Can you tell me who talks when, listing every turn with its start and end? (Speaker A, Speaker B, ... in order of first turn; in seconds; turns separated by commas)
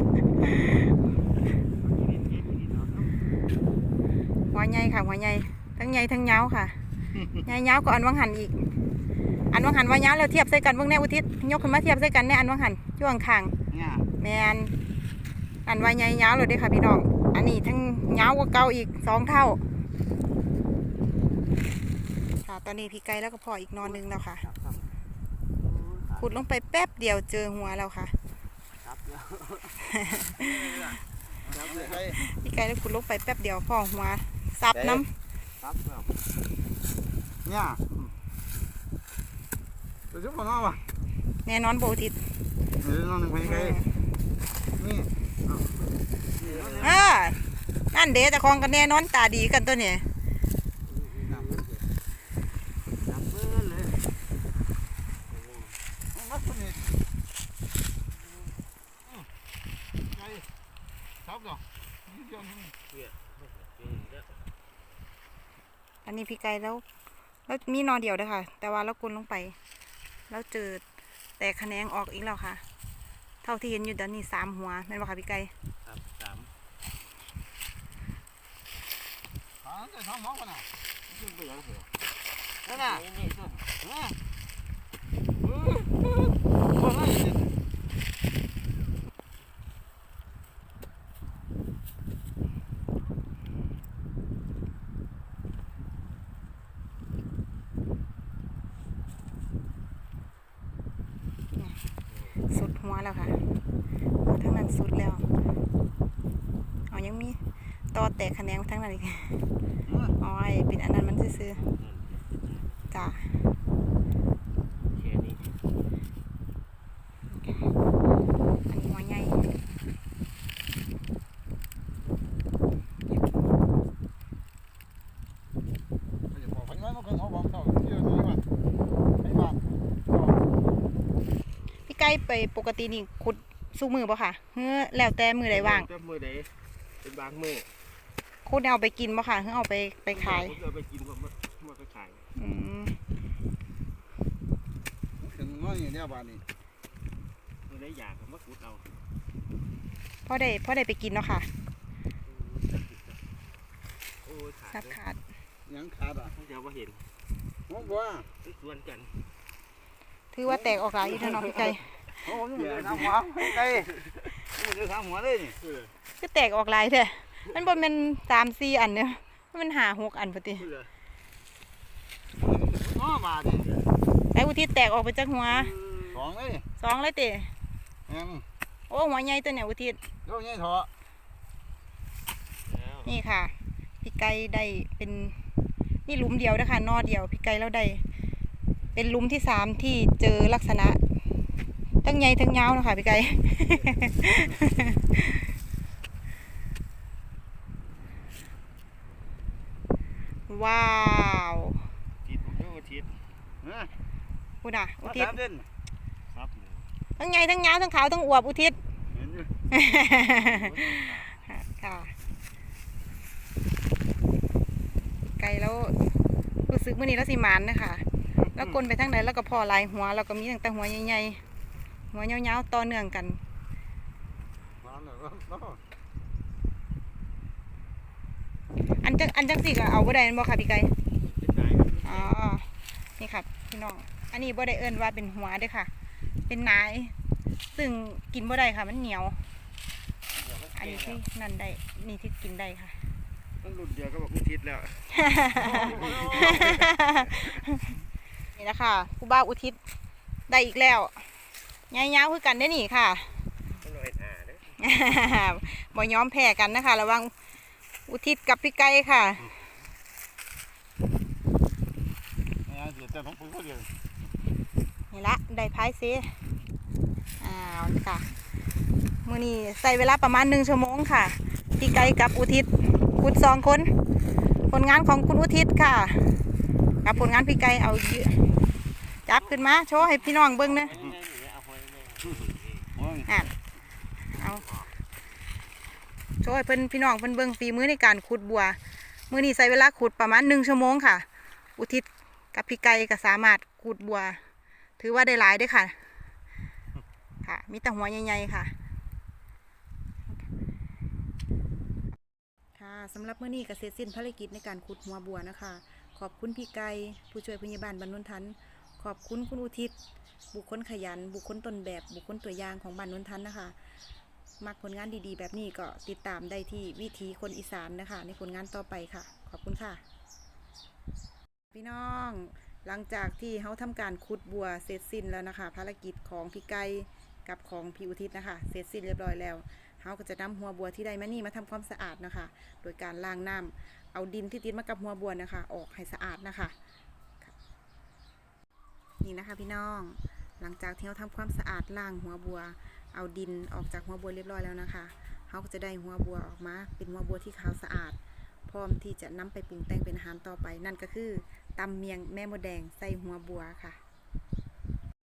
Speaker A: 1.6-3.3, Speaker B: 4.5-6.8, Speaker B: 7.4-8.7, Speaker B: 9.5-13.5, Speaker C: 13.7-14.1, Speaker B: 14.2-14.7, Speaker B: 15.7-19.6, Speaker B: 22.4-24.4, Speaker A: 23.8-24.9, Speaker A: 25.6-26.4, Speaker B: 26.2-28.1, Speaker A: 28.8-29.8, Speaker B: 29.9-30.8, Speaker C: 30.4-30.9, Speaker A: 31.4-32.1, Speaker C: 31.5-32.1, Speaker B: 32.1-35.1, Speaker A: 35.6-36.2, Speaker C: 37.5-37.8, Speaker C: 40.1-40.8, Speaker B: 41.4-42.2, Speaker C: 42.8-43.8, Speaker B: 43.4-43.9, Speaker C: 44.8-45.1, Speaker A: 45.5-47.0, Speaker C: 46.4-47.0, Speaker B: 46.8-50.0, Speaker A: 50.9-51.8, Speaker A: 53.0-54.0, Speaker A: 55.3-55.8, Speaker C: 56.2-56.8, Speaker A: 58.2-58.6, Speaker C: 61.3-61.6, Speaker C: 62.2-62.5, Speaker A: 62.9-64.4, Speaker B: 66.0-66.8, Speaker B: 67.5-69.5, Speaker B: 70.3-70.8, Speaker B: 71.4-72.6, Speaker B: 73.4-75.5, Speaker A: 75.8-76.5, Speaker C: 79.6-80.6, Speaker A: 81.1-81.9, Speaker A: 82.7-83.7, Speaker C: 86.7-87.5, Speaker A: 102.1-102.4, Speaker B: 102.5-103.4, Speaker B: 104.2-105.2, Speaker B: 106.9-107.4, Speaker B: 107.9-109.4, Speaker C: 109.9-110.1, Speaker B: 110.2-111.6, Speaker A: 111.5-113.1, Speaker B: 112.9-113.2, Speaker A: 114.9-115.5, Speaker B: 117.3-117.7, Speaker B: 118.7-119.4, Speaker C: 126.3-128.4, Speaker C: 129.3-129.6, Speaker B: 131.8-135.9, Speaker A: 135.5-137.7, Speaker B: 138.4-140.5, Speaker A: 140.1-142.3, Speaker B: 142.3-142.9, Speaker C: 145.2-146.4, Speaker A: 147.7-148.9, Speaker B: 150.2-151.5, Speaker A: 152.2-153.2, Speaker A: 154.2-155.0, Speaker B: 154.7-155.2, Speaker C: 155.7-156.3, Speaker A: 156.3-157.1, Speaker C: 157.7-158.2, Speaker A: 157.8-159.2, Speaker B: 160.3-162.0, Speaker C: 162.2-163.9, Speaker A: 162.2-164.1, Speaker C: 164.5-165.6, Speaker A: 165.6-165.9, Speaker B: 166.2-170.7, Speaker A: 170.6-170.9, Speaker C: 172.4-173.6, Speaker A: 173.5-173.9, Speaker B: 174.3-175.7, Speaker A: 175.5-176.3, Speaker C: 176.1-176.6, Speaker B: 176.8-177.5, Speaker C: 178.1-178.4, Speaker B: 178.9-180.0, Speaker C: 180.3-180.9, Speaker A: 182.7-183.1, Speaker B: 183.1-185.3, Speaker B: 186.1-188.0, Speaker B: 188.9-191.0, Speaker B: 192.0-195.4, Speaker B: 200.5-201.8, Speaker A: 202.2-203.1, Speaker C: 203.6-203.9, Speaker B: 204.6-205.4, Speaker C: 205.1-205.6, Speaker A: 206.3-206.8, Speaker B: 207.2-208.8, Speaker C: 209.1-209.5, Speaker B: 209.7-212.1, Speaker A: 210.3-211.4, Speaker B: 215.4-215.9, Speaker B: 216.7-221.4, Speaker B: 222.1-223.4, Speaker C: 224.8-225.8, Speaker B: 229.0-230.9, Speaker A: 231.2-232.3, Speaker B: 232.0-232.7, Speaker B: 233.2-235.9, Speaker B: 236.5-237.1, Speaker B: 237.7-239.4, Speaker A: 240.3-241.2, Speaker B: 240.8-243.0, Speaker A: 243.6-245.1, Speaker B: 245.1-247.9, Speaker C: 245.6-246.8, Speaker A: 245.7-246.8, Speaker B: 248.6-249.8, Speaker B: 250.5-251.2, Speaker B: 251.9-253.4, Speaker A: 253.8-254.8, Speaker B: 254.8-257.3, Speaker B: 258.1-259.5, Speaker C: 262.7-263.9, Speaker B: 265.1-266.3, Speaker B: 267.4-268.3, Speaker B: 269.2-273.9, Speaker B: 274.7-276.4, Speaker B: 277.0-278.5, Speaker B: 279.2-280.9, Speaker A: 280.2-282.9, Speaker C: 283.0-283.3, Speaker B: 283.3-283.5, Speaker B: 284.3-284.6, Speaker A: 284.3-284.9, Speaker B: 286.4-288.8, Speaker B: 289.3-291.2, Speaker B: 291.8-294.4, Speaker B: 295.0-295.9, Speaker B: 297.4-298.7, Speaker B: 302.7-309.9, Speaker B: 310.5-313.7, Speaker B: 314.6-320.0, Speaker B: 321.7-336.7, Speaker B: 339.2-354.0